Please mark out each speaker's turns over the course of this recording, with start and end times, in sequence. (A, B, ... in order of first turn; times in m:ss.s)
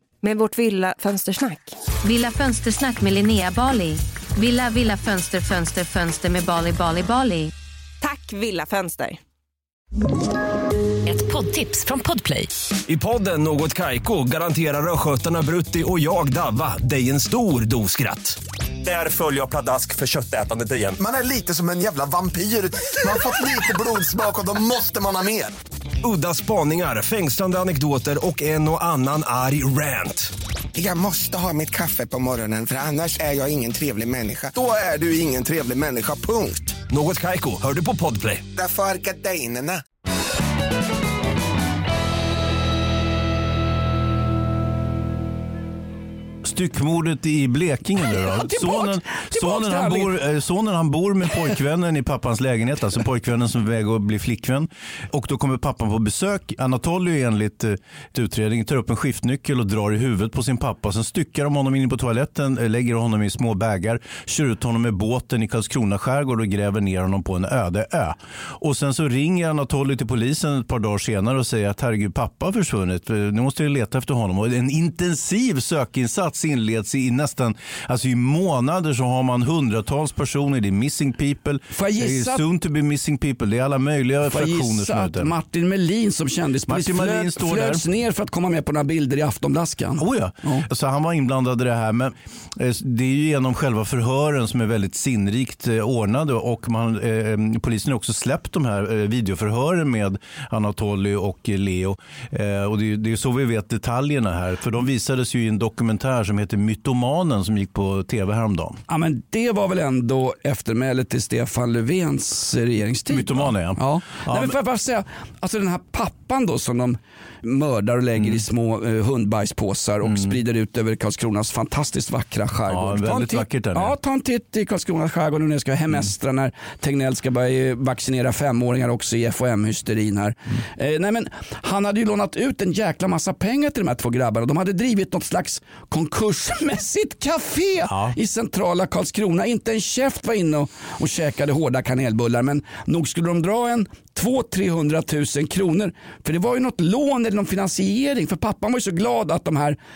0:00.2-0:01.7 A
0:02.0-0:07.5 B
0:08.0-0:09.2 A
0:11.0-0:12.5 B
0:12.9-0:21.0 C
0:21.0-0:25.5 D
0:26.0-0:30.3 C
0:30.8-0:36.8 D
0:36.9-0:38.4 C
0:38.5-0:39.8 D
0:46.4-1:25.3 E
0:48.0-0:50.2 F
1:21.7-1:22.4 F
1:24.2-1:30.6 F
1:26.7-1:27.8 E
1:30.0-1:48.8 E
1:48.9-2:29.8 F
1:53.1-1:54.6 E
2:00.0-2:00.3 E
2:02.7-2:04.0 E
2:17.9-2:18.2 E